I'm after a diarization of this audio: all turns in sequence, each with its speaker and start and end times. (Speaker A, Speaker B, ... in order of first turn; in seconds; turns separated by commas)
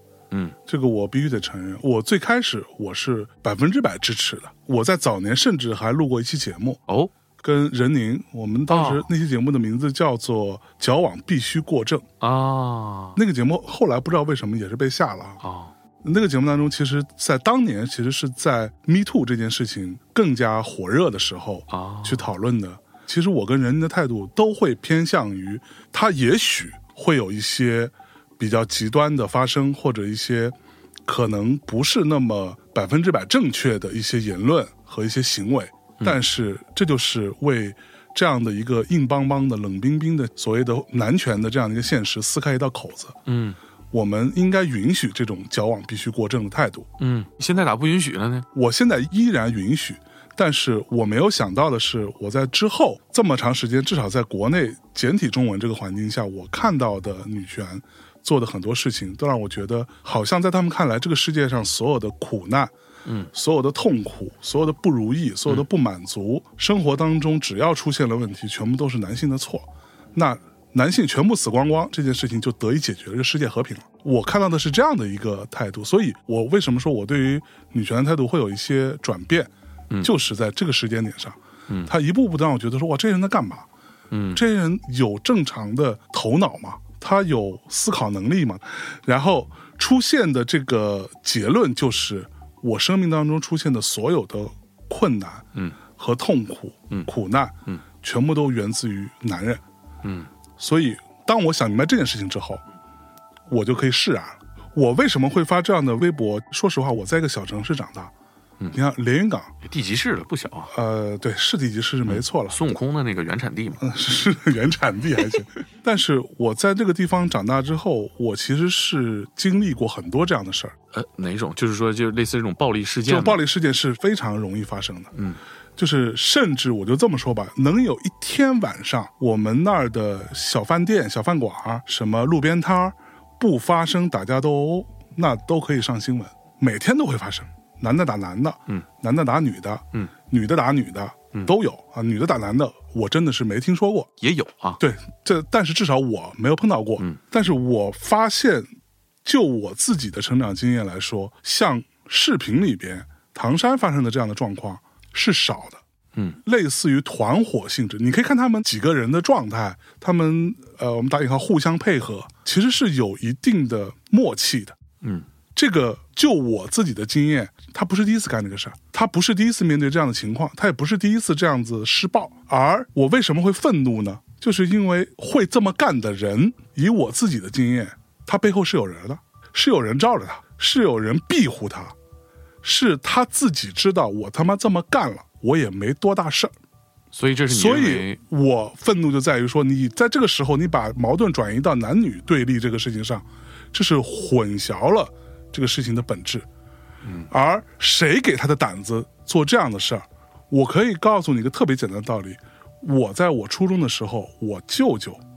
Speaker A: 0.3-0.6, Speaker B: 0.7-6.8, Speaker B: 7.4-12.1, Speaker A: 8.7-9.1, Speaker A: 12.2-13.2, Speaker B: 13.2-15.4, Speaker A: 15.4-15.7, Speaker B: 16.0-30.6, Speaker A: 21.7-22.3, Speaker B: 31.1-43.2, Speaker A: 43.3-43.6, Speaker B: 43.9-46.9, Speaker A: 47.0-48.5, Speaker B: 48.5-62.7, Speaker B: 63.3-79.5, Speaker B: 80.0-83.7, Speaker A: 84.1-84.4, Speaker B: 84.3-99.6, Speaker A: 100.0-100.3, Speaker B: 100.6-102.6, Speaker B: 103.5-108.1, Speaker B: 108.7-109.5, Speaker A: 109.6-110.7, Speaker B: 110.7-112.6, Speaker A: 112.1-113.8, Speaker B: 113.8-120.8, Speaker A: 120.9-123.4, Speaker B: 123.1-125.1, Speaker B: 125.8-144.1, Speaker A: 144.2-144.8, Speaker B: 144.8-148.7, Speaker B: 149.2-155.8, Speaker B: 156.4-164.8, Speaker B: 165.6-181.9, Speaker B: 182.6-186.5, Speaker A: 187.1-188.2, Speaker B: 187.5-196.5, Speaker A: 197.0-197.3, Speaker B: 197.3-205.2